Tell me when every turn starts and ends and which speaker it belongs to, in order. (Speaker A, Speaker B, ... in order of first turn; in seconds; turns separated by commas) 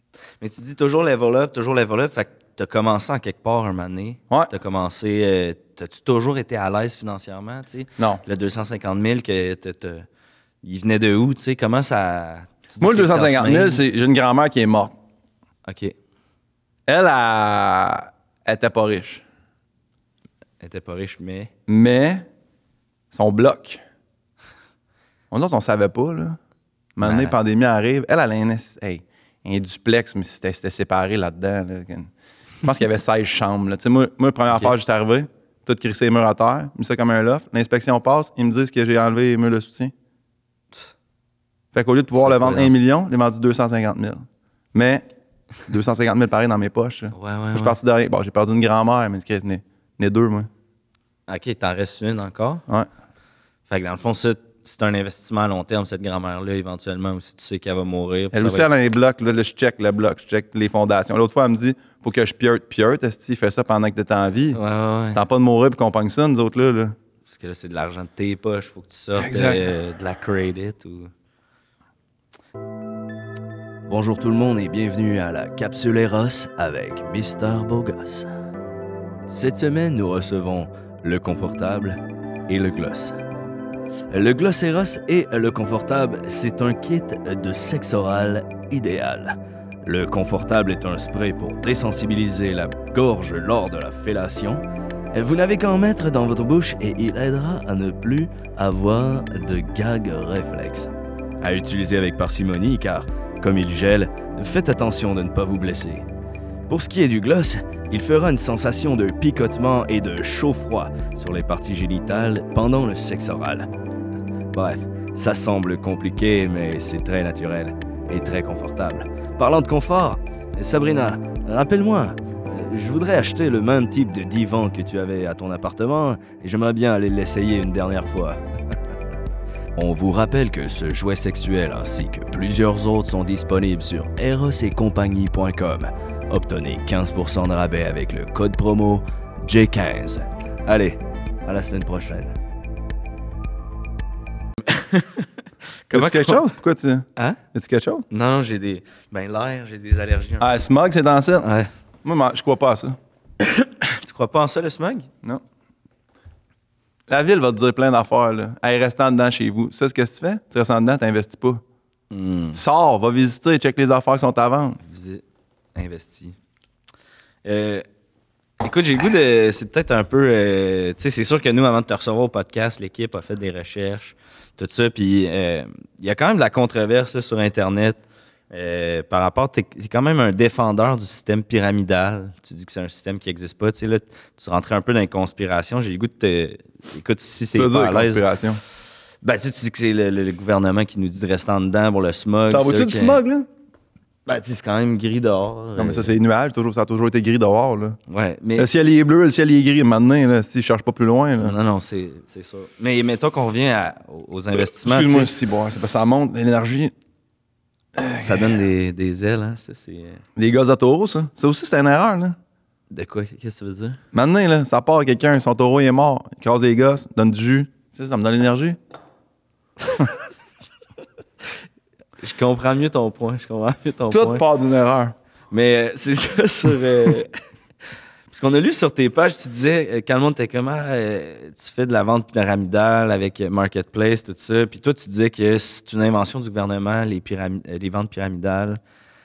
Speaker A: 0.4-10.1, Speaker B: 8.0-8.2, Speaker A: 10.6-13.8, Speaker B: 12.8-14.9, Speaker A: 15.7-15.9, Speaker B: 16.9-19.2, Speaker A: 20.6-21.5, Speaker B: 21.7-22.3, Speaker B: 23.1-23.8, Speaker B: 25.3-26.4, Speaker B: 26.9-32.1, Speaker A: 27.0-27.3, Speaker B: 32.6-39.9, Speaker B: 41.7-45.0, Speaker A: 42.1-42.8, Speaker B: 45.6-50.5, Speaker A: 47.1-47.8, Speaker A: 51.3-52.6, Speaker A: 53.7-58.7, Speaker B: 58.3-64.6, Speaker A: 64.5-65.2, Speaker B: 65.1-67.0, Speaker A: 67.2-71.1, Speaker B: 69.2-69.7, Speaker A: 73.8-78.3, Speaker A: 79.3-83.2, Speaker A: 84.1-100.9, Speaker A: 101.4-106.0, Speaker A: 106.7-113.7, Speaker A: 114.5-128.4, Speaker A: 129.8-142.3, Speaker A: 144.6-146.4, Speaker B: 145.9-148.1, Speaker A: 148.1-150.5, Speaker B: 150.4-151.5, Speaker A: 151.4-151.7, Speaker B: 152.0-152.9, Speaker A: 153.4-155.1, Speaker B: 157.1-161.6, Speaker A: 162.1-162.6, Speaker B: 162.5-164.8, Speaker A: 164.8-165.2, Speaker A: 165.7-166.4, Speaker A: 167.4-167.8, Speaker A: 168.6-188.3, Speaker B: 187.5-188.6, Speaker A: 189.2-193.2, Speaker B: 192.5-193.5, Speaker A: 194.2-196.1, Speaker B: 195.8-198.0, Speaker A: 198.1-198.7, Speaker B: 198.6-201.6, Speaker A: 201.4-205.3, Speaker B: 204.7-206.9, Speaker B: 207.9-208.6, Speaker A: 208.2-210.2, Speaker B: 210.4-212.3, Speaker A: 212.9-214.0, Speaker B: 214.1-218.8, Speaker A: 222.2-224.4, Speaker B: 224.1-225.1, Speaker A: 225.5-227.3, Speaker A: 228.3-238.8